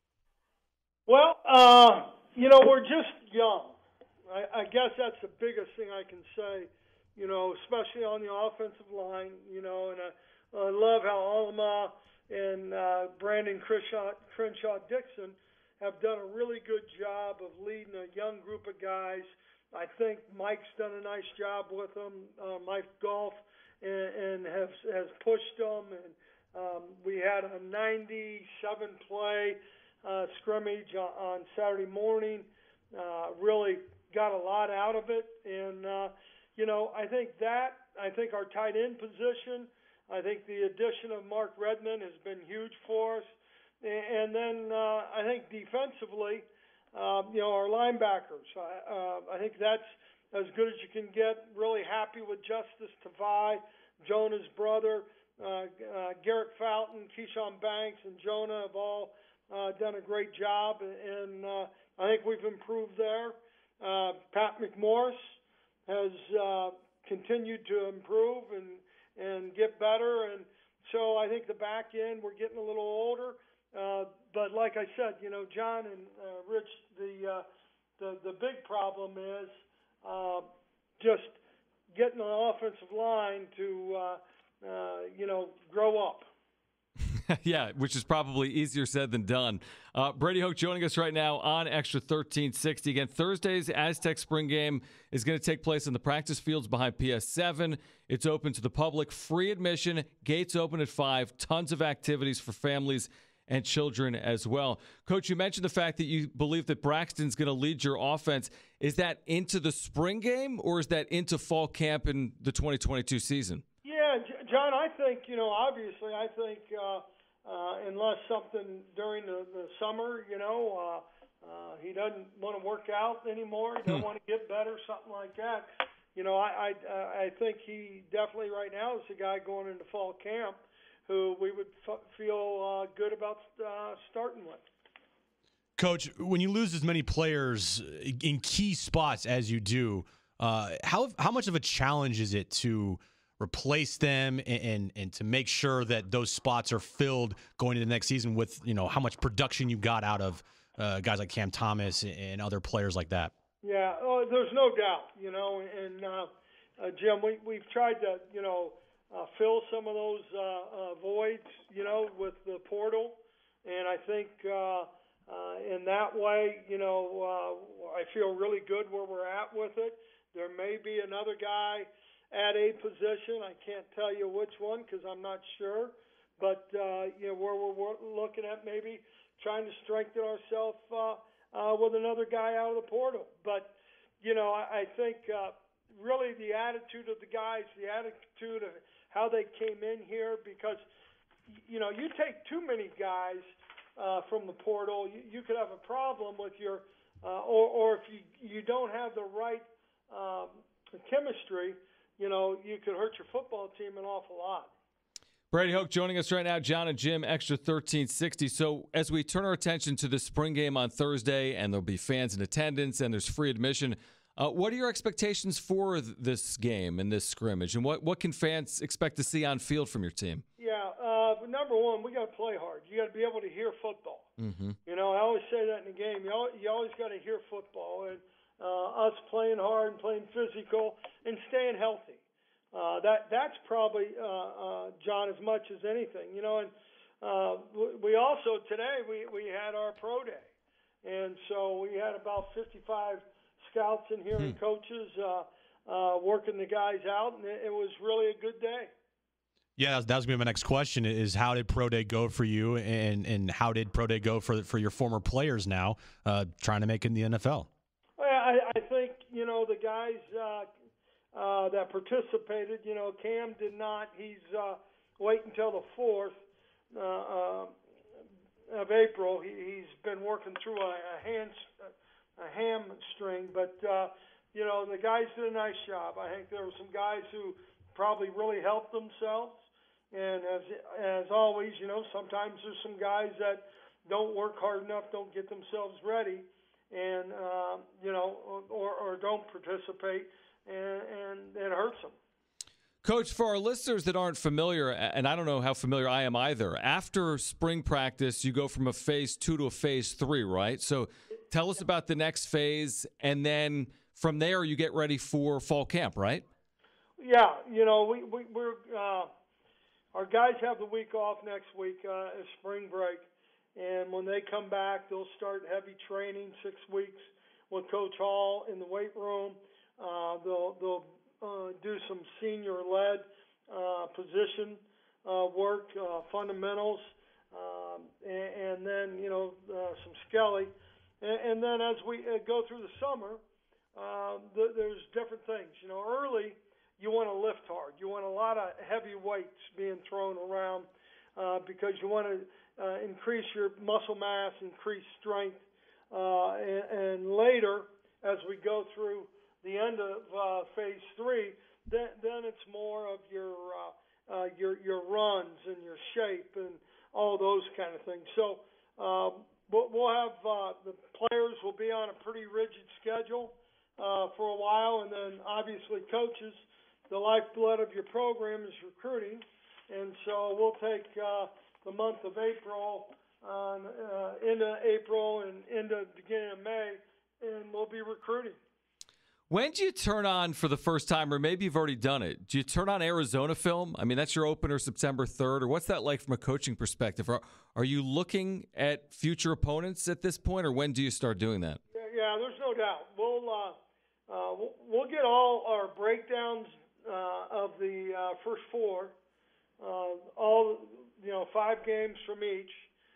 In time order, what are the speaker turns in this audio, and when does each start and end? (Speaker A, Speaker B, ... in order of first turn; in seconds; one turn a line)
Speaker A: 1.1-43.3
Speaker A: 43.8-77.4
Speaker A: 78.0-81.4
Speaker A: 81.9-86.3
Speaker B: 87.3-113.6
Speaker A: 113.8-134.6
Speaker C: 135.8-153.3
Speaker A: 153.6-190.8
Speaker A: 191.5-193.4
Speaker A: 194.0-204.7
Speaker B: 205.5-220.4
Speaker A: 220.6-224.3
Speaker B: 224.4-224.8
Speaker A: 224.8-232.2
Speaker A: 232.7-240.5
Speaker A: 241.0-248.9
Speaker C: 249.8-257.7
Speaker A: 258.2-260.7
Speaker A: 261.3-266.4
Speaker A: 266.9-267.7
Speaker A: 268.7-292.2
Speaker B: 293.0-306.4
Speaker A: 307.2-309.3
Speaker A: 310.1-333.4
Speaker A: 333.9-378.6
Speaker B: 379.5-391.8
Speaker A: 391.9-393.8
Speaker A: 394.3-399.1
Speaker A: 399.8-402.9